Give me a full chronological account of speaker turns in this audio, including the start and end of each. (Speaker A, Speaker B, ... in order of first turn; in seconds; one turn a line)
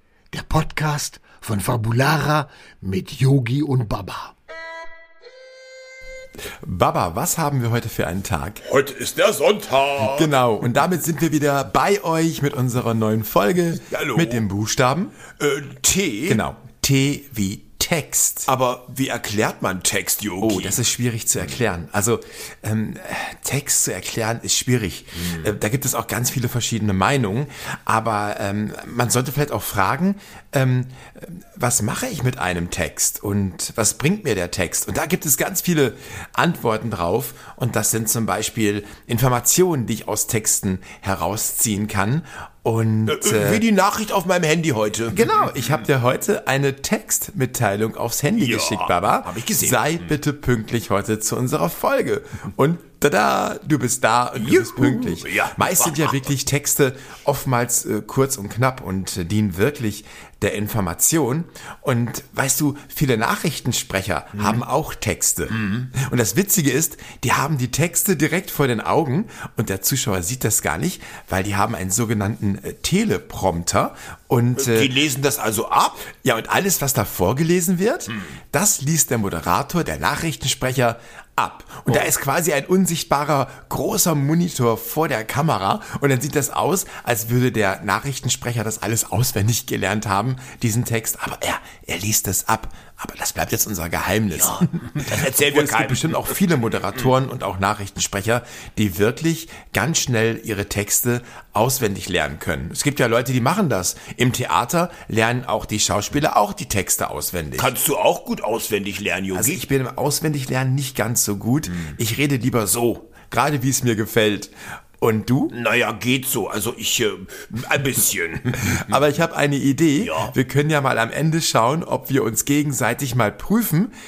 Speaker A: 0.3-4.4
Speaker B: 6.6-8.6
Speaker C: 8.6-10.3
Speaker B: 10.0-15.2
Speaker C: 13.9-14.4
Speaker C: 15.4-16.4
Speaker B: 16.3-18.5
Speaker C: 18.5-20.8
Speaker B: 20.4-43.6
Speaker C: 25.3-25.6
Speaker C: 43.1-45.3
Speaker B: 45.1-74.9
Speaker C: 48.4-50.1
Speaker C: 54.4-56.2
Speaker C: 74.6-76.0
Speaker B: 76.1-107.7
Speaker C: 94.3-96.3
Speaker C: 107.6-109.6
Speaker B: 109.3-115.5
Speaker C: 115.5-118.8
Speaker B: 118.7-123.9
Speaker C: 120.0-120.3